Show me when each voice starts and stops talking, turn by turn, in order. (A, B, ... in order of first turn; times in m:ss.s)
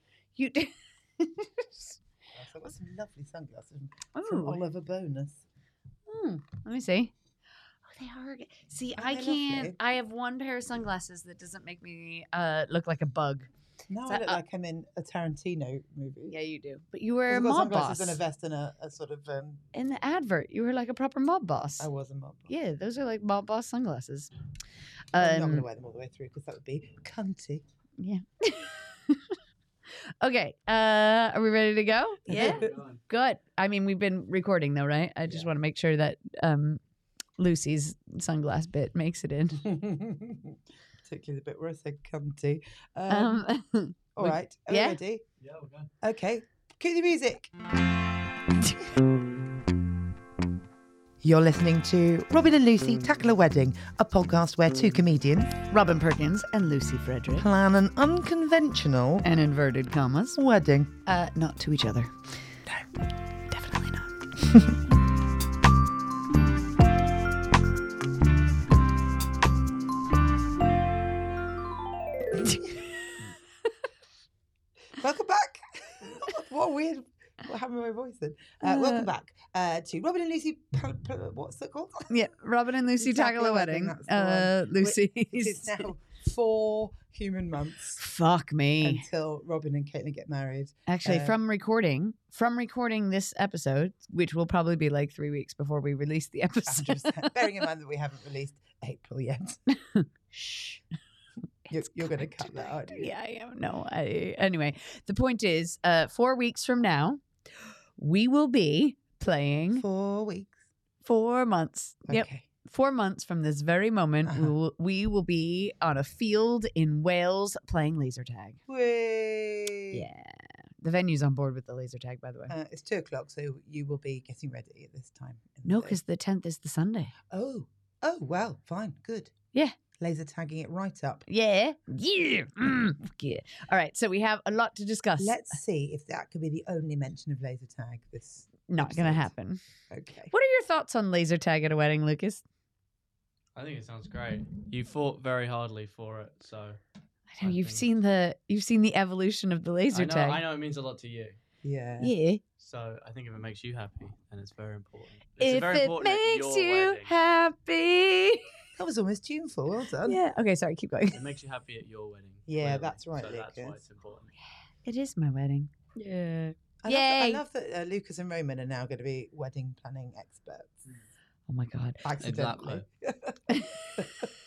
0:00.4-0:02.0 A
0:02.3-0:05.4 B
0:04.1-0:04.6 A
0:06.1-0:07.1 A
0:07.9-0:13.5 A
0:09.0-0:09.8 B
0:13.9-0:16.3 B
0:14.1-0:14.4 A
0:16.3-0:18.2 A
0:17.3-0:19.6 B
0:19.7-0:21.9 A
0:21.8-0:22.5 B
0:22.5-0:24.3 A
0:25.1-0:25.6 A
0:25.1-0:27.6 B
0:28.0-0:29.4 A
0:30.2-0:36.8 A
0:32.3-0:32.6 B
0:32.3-0:33.0 C
0:35.2-0:35.5 C
0:37.4-0:39.6 A
0:39.6-0:43.4 B
0:43.1-0:45.0 A
0:44.1-0:45.2 B
0:45.4-0:45.9 C
0:46.0-0:47.5 B
0:51.2-0:55.6 B
0:55.7-0:57.4 A
0:57.4-0:59.3 B
0:59.2-1:00.4 A
1:00.4-1:00.9 B
1:01.0-1:02.6 A
1:03.5-1:04.2 A
1:15.0-1:22.1 B
1:18.6-1:19.1 A
1:22.1-1:25.8 A
1:23.0-1:28.0 B
1:28.0-1:29.0 A
1:28.8-1:31.3 B
1:30.9-1:37.4 A
1:36.7-1:39.6 B
1:39.9-1:40.8 A
1:41.7-1:47.2 A
1:41.7-1:43.1 B
1:48.0-1:49.8 A
1:49.8-1:50.6 B
1:51.0-1:58.6 A
1:52.1-1:52.4 B
1:54.2-1:54.5 B
1:58.7-2:00.0 B
1:59.9-2:02.5 A
2:02.5-2:06.0 B
2:05.7-2:07.1 A
2:07.3-2:09.3 B
2:10.0-2:11.2 B
2:11.3-2:15.4 A
2:15.2-2:19.3 B
2:18.7-2:19.6 A
2:19.9-2:20.3 B
2:20.3-2:22.4 A
2:23.6-2:26.8 C
2:27.3-2:30.4 A
2:27.4-2:27.9 C
2:29.9-2:31.4 C
2:31.6-2:32.1 B
2:32.0-2:32.4 A
2:32.6-2:37.2 C
2:35.4-2:38.5 A
2:38.7-2:40.2 B
2:40.0-2:41.2 A
2:41.1-2:44.3 C
2:42.5-2:43.8 B
2:44.8-2:47.4 A
2:46.8-2:50.8 B
2:51.5-2:52.0 A
2:52.0-2:54.3 B
2:52.2-2:52.8 C
2:53.5-2:54.3 A